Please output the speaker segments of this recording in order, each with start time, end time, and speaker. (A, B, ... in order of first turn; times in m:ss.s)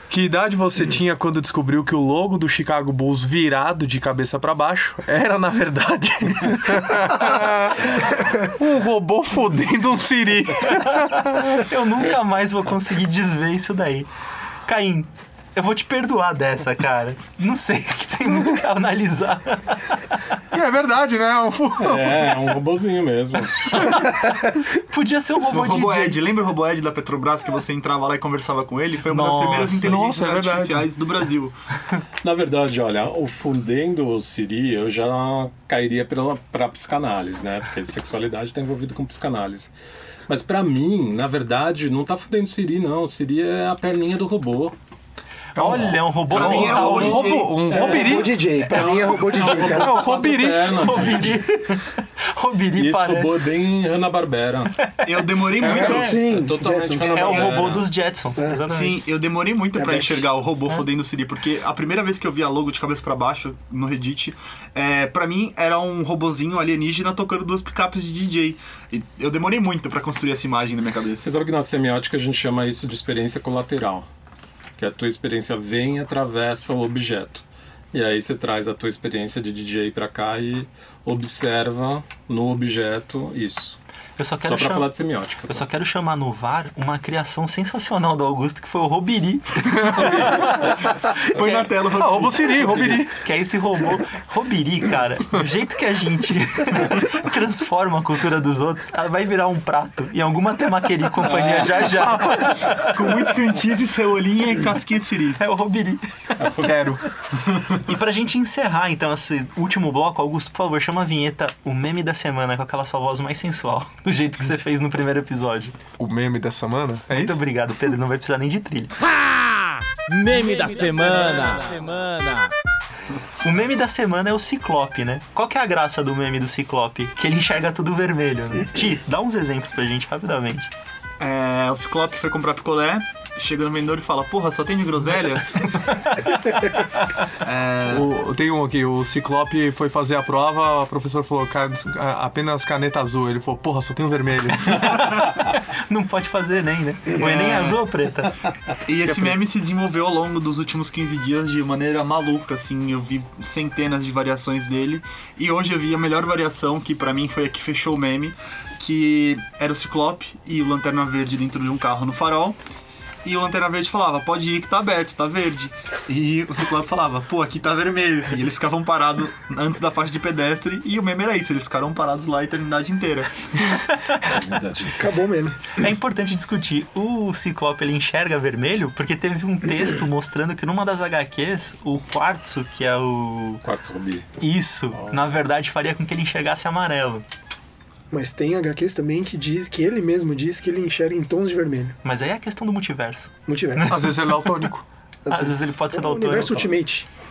0:00.1-0:11.6 A
0:11.3-0:14.1 B
0:14.6-0:20.2 B
0:20.5-0:22.2 A
0:21.8-0:23.9 C
0:23.8-0:26.2 B
0:25.5-0:31.6 D
0:29.1-0:29.9 B
0:29.8-0:30.9 A
0:32.2-0:39.7 C
0:40.3-0:44.8 C
0:45.6-0:47.4 B
0:45.6-0:48.4 A
0:46.3-0:47.8 D
0:47.7-0:51.4 C
0:47.7-0:50.2 E
0:49.6-0:50.8 A
0:50.6-0:53.4 B
0:52.8-0:54.8 C
0:55.0-0:56.2 D
0:55.6-0:56.1 A
0:55.7-0:57.9 C
0:55.8-0:57.5 E
0:57.1-0:59.0 B
0:58.7-1:11.3 D
0:59.8-1:00.3 E
1:11.2-1:14.1 C
1:14.8-1:23.8 C
1:24.2-1:24.9 B
1:24.4-1:25.7 C
1:25.5-1:30.7 B
1:31.2-1:32.9 D
1:31.4-1:31.6 B
1:31.9-1:33.1 A
1:33.2-1:43.3 B
1:42.9-1:45.4 D
1:45.4-1:46.5 B
1:46.4-1:46.7 C
1:46.6-1:47.0 A
1:47.8-1:55.8 B
1:56.0-1:57.4 A
1:57.1-1:59.0 B
2:00.1-2:02.5 F
2:03.4-2:10.7 B
2:11.2-2:15.7 D
2:17.4-2:18.1 D
2:17.9-2:25.0 A
2:25.9-2:28.4 B
2:27.2-2:27.8 D
2:28.8-2:42.6 D
2:29.1-2:29.4 A
2:43.2-2:53.8 D
2:53.9-2:54.2 B
2:54.2-2:55.1 C
2:55.0-2:55.7 E
2:55.8-3:03.6 B
3:03.6-3:04.3 C
3:04.4-3:07.2 B
3:08.1-3:12.0 E
3:12.0-3:14.5 B
3:13.5-3:14.1 E
3:13.9-3:14.8 A
3:15.2-3:17.1 E
3:15.3-3:16.8 B